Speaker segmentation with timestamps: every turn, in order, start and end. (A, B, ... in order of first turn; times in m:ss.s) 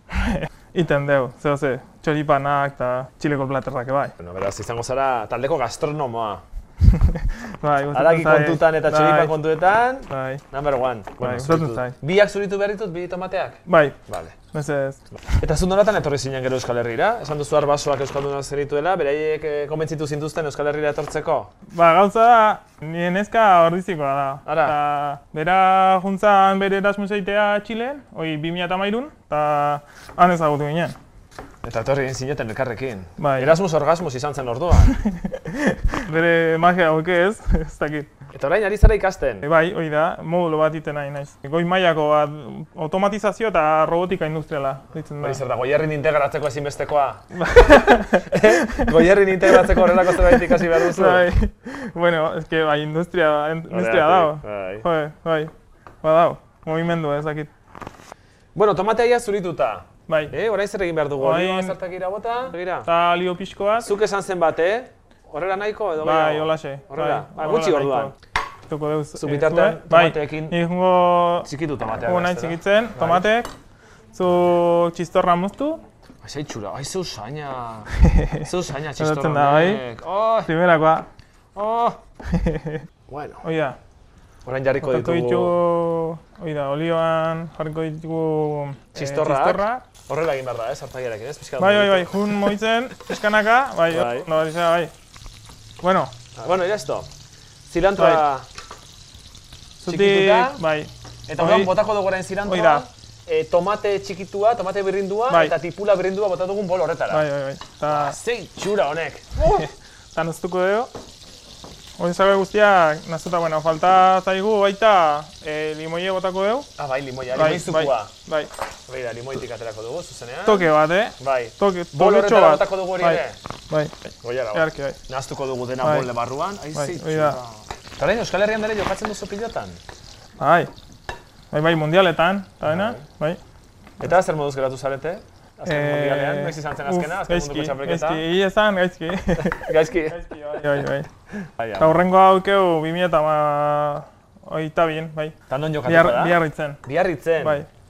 0:00.1-0:04.1 A
0:04.2-0:06.4 B
0:06.8-0:09.3 A
0:07.9-0:14.4 B
0:10.1-0:10.4 A
0:11.2-0:11.9 A
0:13.7-0:14.0 A
0:14.5-0:15.0 A
0:15.3-0:21.5 B
0:21.7-0:31.0 A
0:24.4-0:24.7 B
0:31.6-0:35.0 B
0:33.2-0:33.6 A
0:34.9-0:38.1 A
0:38.3-0:39.5 B
0:39.4-0:45.4 A
0:45.2-0:51.3 B
0:47.3-0:55.5 A
0:53.7-0:54.8 B
0:56.0-0:57.5 A
0:58.5-1:02.9 B
1:00.1-1:00.3 A
1:01.2-1:01.8 A
1:02.8-1:03.9 A
1:03.8-1:08.1 B
1:06.0-1:08.1 A
1:08.7-1:11.5 A
1:09.2-1:10.6 B
1:11.4-1:13.2 B
1:12.0-1:13.5 A
1:14.1-1:15.8 A
1:16.2-1:20.5 B
1:18.0-1:19.8 A
1:20.4-1:21.0 A
1:21.5-1:22.0 B
1:22.3-1:22.8 A
1:23.1-1:23.4 B
1:23.4-1:23.8 A
1:24.4-1:25.5 B
1:24.8-1:29.8 A
1:28.9-1:32.5 B
1:31.6-1:34.9 A
1:33.9-1:34.3 B
1:35.8-1:36.1 A
1:36.4-1:37.1 B
1:37.7-1:38.5 B
1:38.0-1:38.2 A
1:39.8-1:40.6 B
1:39.8-1:41.7 A
1:41.3-1:47.3 B
1:42.4-1:42.8 A
1:47.1-1:48.2 A
1:47.9-1:49.6 B
1:49.4-1:50.9 A
1:52.0-1:56.7 A
1:56.8-1:58.1 B
1:57.3-1:58.5 A
1:58.9-2:03.4 B
2:00.4-2:03.9 A
2:04.2-2:09.8 B
2:04.5-2:05.0 A
2:05.8-2:06.1 A
2:06.7-2:07.4 A
2:10.4-2:10.7 A
2:11.5-2:13.4 A
2:12.6-2:13.0 B
2:14.0-2:18.2 B
2:15.6-2:21.1 A
2:19.4-2:20.2 B
2:21.5-2:21.9 B
2:21.8-2:25.3 A
2:25.5-2:27.6 B
2:25.8-2:26.8 A
2:27.4-2:27.7 A